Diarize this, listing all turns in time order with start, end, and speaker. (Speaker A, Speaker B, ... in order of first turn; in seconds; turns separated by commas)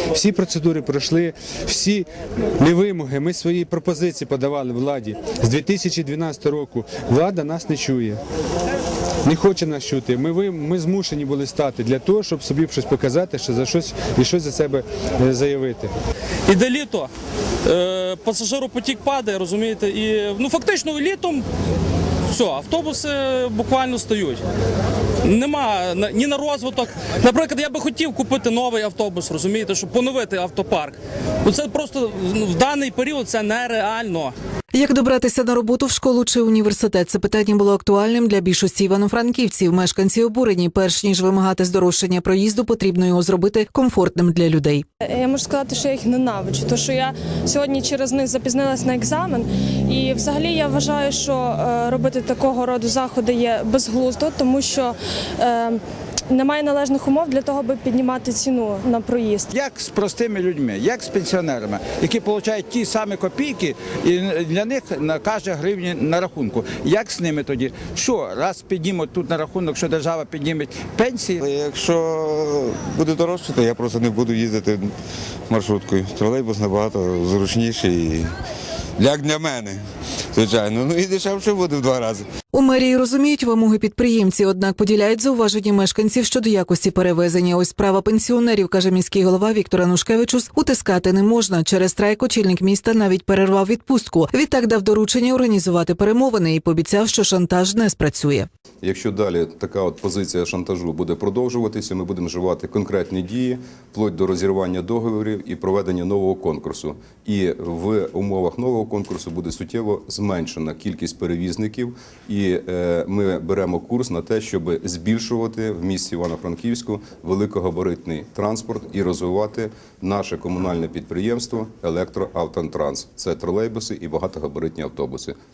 Speaker A: 0.1-2.0, Speaker A: 2.6-8.2, Speaker A: 9.2-15.9, Speaker B: 16.5-17.1, Speaker B: 17.6-21.4, Speaker B: 22.3-24.4, Speaker B: 25.2-34.3, Speaker C: 34.7-44.8, Speaker D: 45.0-59.5, Speaker E: 59.5-71.4, Speaker F: 71.4-74.9, Speaker F: 75.5-78.3, Speaker F: 79.0-79.8, Speaker F: 80.3-82.2, Speaker C: 82.5-98.5, Speaker G: 98.8-125.3